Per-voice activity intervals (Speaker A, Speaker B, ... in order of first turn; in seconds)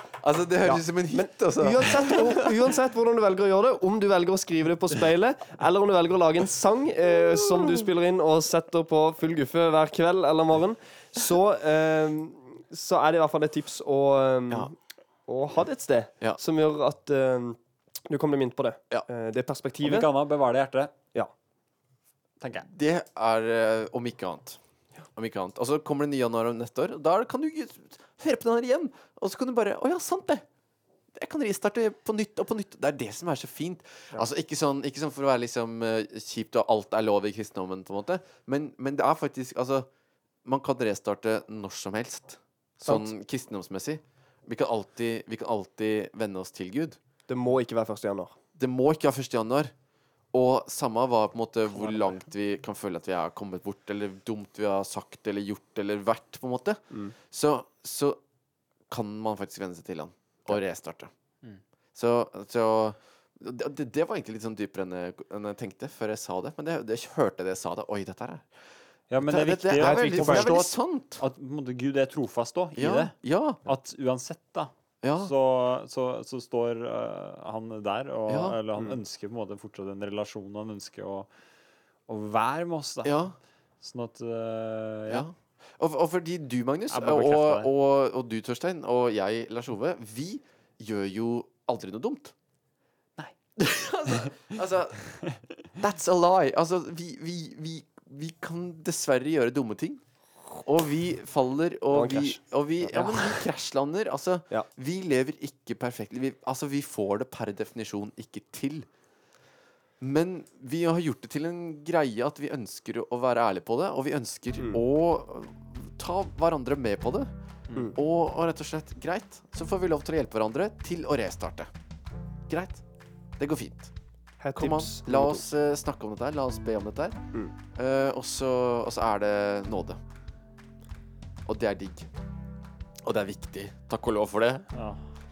Speaker A: 0.2-2.5, 7.3-7.8, 22.7-24.6, 25.1-30.4, 31.1-39.9, 40.4-47.0, 48.5-49.7, 50.3-58.2, 58.9-61.1, 61.9-68.5, 69.2-71.2, 72.8-73.6, 75.0-75.3, 78.3-78.6, 83.0-83.4, 85.1-92.3, 93.6-95.0, 95.8-100.0, 100.6-108.9, 110.0-117.3, 117.9-121.7, 122.5-122.8, 123.4-123.9, 124.5-130.0, 131.4-132.1, 133.0-134.7
Speaker B: 0.6-14.8, 15.3-20.1, 42.9-43.1, 47.3-48.4, 69.8-70.5, 101.9-103.4, 114.6-114.8, 124.4-125.4
Speaker C: 19.8-20.9, 22.4-22.7, 69.1-81.3, 82.1-83.1, 83.8-85.3, 86.9-87.7, 94.1-94.4, 134.7-135.0